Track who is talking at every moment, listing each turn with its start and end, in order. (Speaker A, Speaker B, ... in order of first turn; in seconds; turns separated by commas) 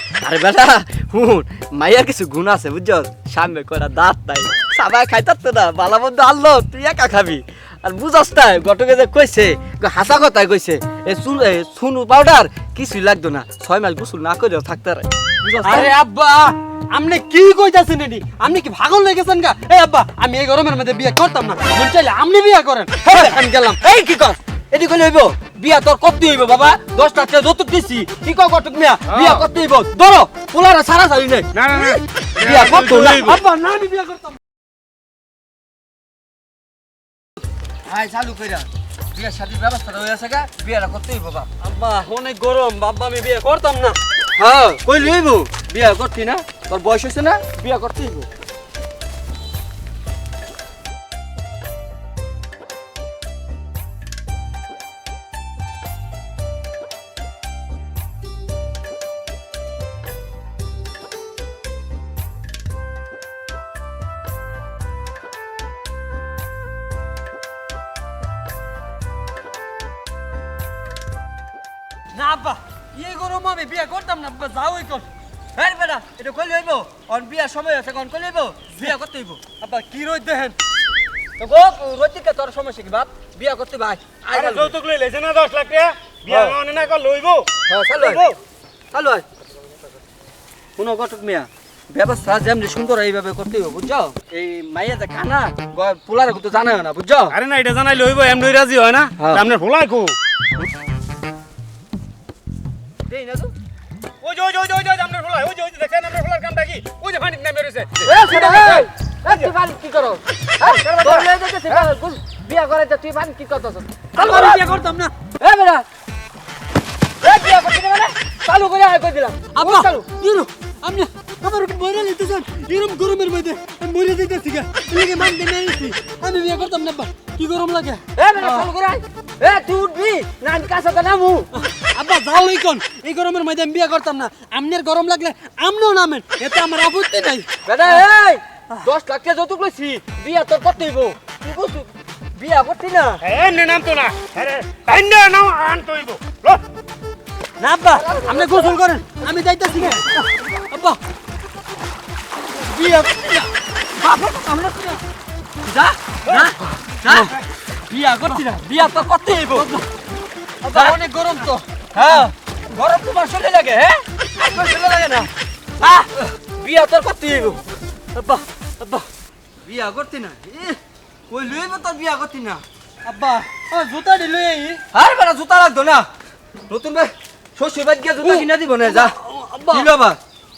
Speaker A: 0.2-15.9, Speaker B: 15.6-23.8, Speaker A: 23.0-31.8, Speaker C: 29.1-29.4, Speaker C: 31.5-33.4, Speaker A: 32.4-33.3, Speaker B: 32.9-34.4, Speaker A: 37.9-41.5, Speaker B: 41.6-44.0, Speaker A: 44.4-48.3, Speaker B: 72.1-75.0, Speaker A: 75.5-79.5, Speaker B: 79.6-80.5, Speaker A: 81.4-84.8, Speaker C: 84.3-87.5, Speaker A: 86.3-86.5, Speaker A: 87.7-88.3, Speaker A: 88.9-89.2, Speaker A: 90.8-97.3, Speaker C: 97.3-100.1, Speaker A: 99.2-99.4, Speaker A: 103.1-103.5, Speaker C: 104.2-108.1, Speaker A: 108.0-114.6, Speaker B: 108.2-108.9, Speaker B: 114.1-115.1, Speaker A: 115.4-115.8, Speaker A: 117.2-120.1, Speaker B: 119.5-128.7, Speaker A: 128.2-131.5, Speaker B: 131.6-138.0, Speaker A: 137.7-143.2, Speaker C: 143.2-146.6, Speaker B: 147.6-151.0, Speaker A: 147.9-148.8, Speaker A: 152.7-153.5, Speaker A: 154.0-155.0, Speaker A: 155.6-157.3, Speaker A: 157.9-159.7, Speaker B: 157.9-158.3, Speaker B: 159.5-159.8, Speaker B: 160.6-161.6, Speaker A: 160.7-161.0, Speaker A: 161.9-165.3, Speaker A: 165.8-167.6, Speaker A: 168.3-169.0, Speaker A: 169.6-172.6, Speaker B: 173.0-174.8, Speaker A: 174.9-176.1, Speaker A: 176.7-179.1, Speaker B: 178.2-179.9, Speaker A: 179.7-180.2